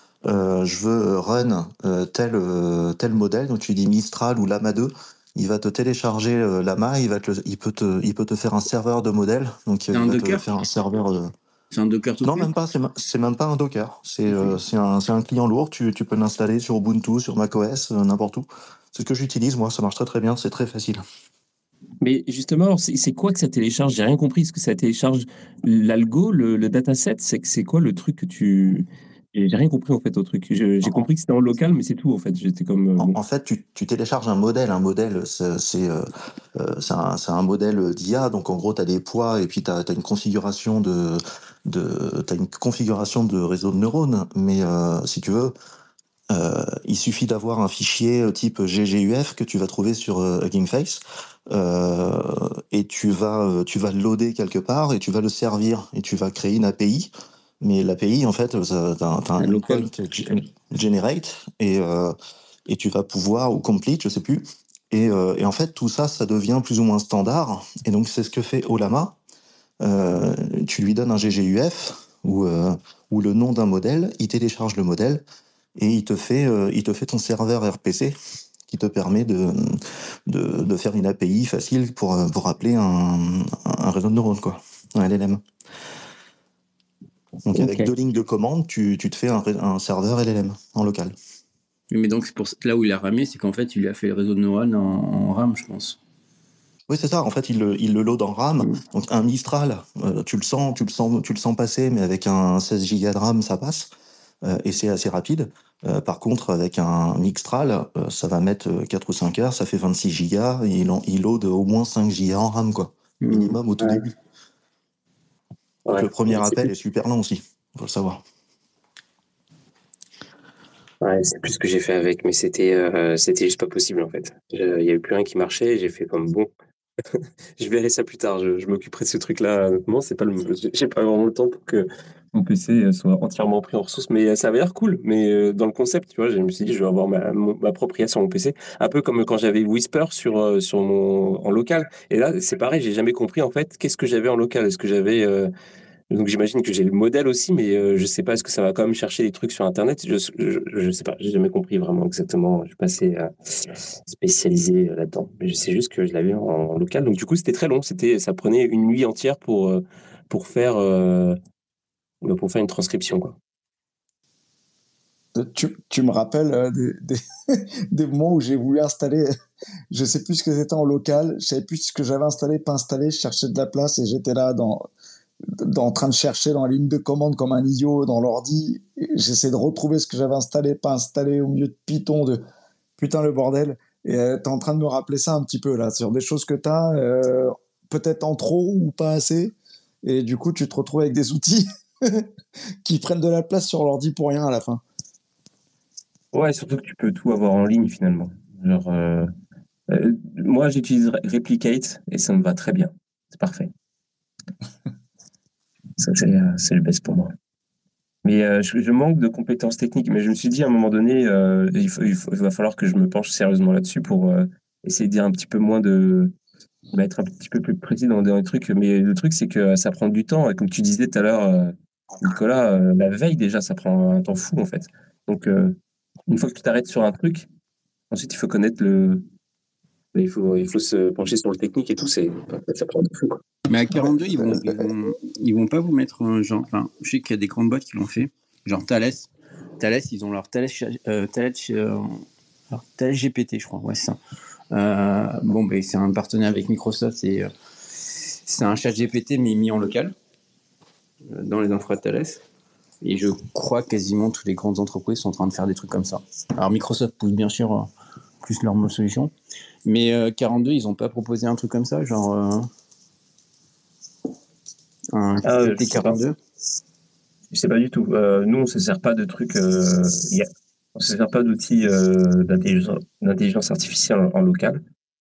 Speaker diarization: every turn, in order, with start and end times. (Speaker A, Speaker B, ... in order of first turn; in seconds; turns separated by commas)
Speaker A: 0.2-11.3, Speaker B: 9.9-10.5, Speaker B: 11.7-12.5, Speaker A: 12.2-21.0, Speaker C: 22.0-33.2, Speaker A: 33.0-45.5, Speaker A: 46.3-57.1, Speaker A: 57.6-62.1, Speaker B: 59.4-59.9, Speaker A: 62.7-69.2, Speaker A: 69.8-75.2, Speaker A: 75.8-78.1, Speaker A: 78.7-85.4, Speaker A: 87.5-91.1, Speaker B: 87.6-87.9, Speaker B: 91.9-96.0, Speaker A: 96.9-103.9, Speaker A: 104.4-114.1, Speaker B: 113.2-113.5, Speaker C: 115.8-116.7, Speaker A: 115.9-118.2, Speaker C: 121.0-126.5, Speaker C: 127.1-145.5, Speaker C: 146.1-161.4, Speaker C: 162.2-163.4, Speaker D: 165.3-169.3, Speaker D: 169.9-174.8, Speaker D: 175.5-182.4, Speaker D: 183.0-192.3, Speaker D: 192.8-194.8, Speaker C: 196.3-199.3, Speaker C: 199.9-203.7, Speaker C: 206.0-207.3, Speaker C: 208.2-216.3, Speaker C: 216.9-225.8, Speaker C: 226.3-227.5, Speaker C: 228.1-229.2, Speaker C: 230.1-233.4, Speaker B: 233.7-244.2, Speaker B: 244.7-247.5, Speaker B: 248.4-250.1, Speaker B: 251.3-252.4, Speaker B: 253.0-257.9, Speaker B: 258.4-259.3, Speaker B: 259.8-262.7, Speaker B: 265.1-266.4, Speaker C: 265.4-266.2, Speaker C: 267.5-274.8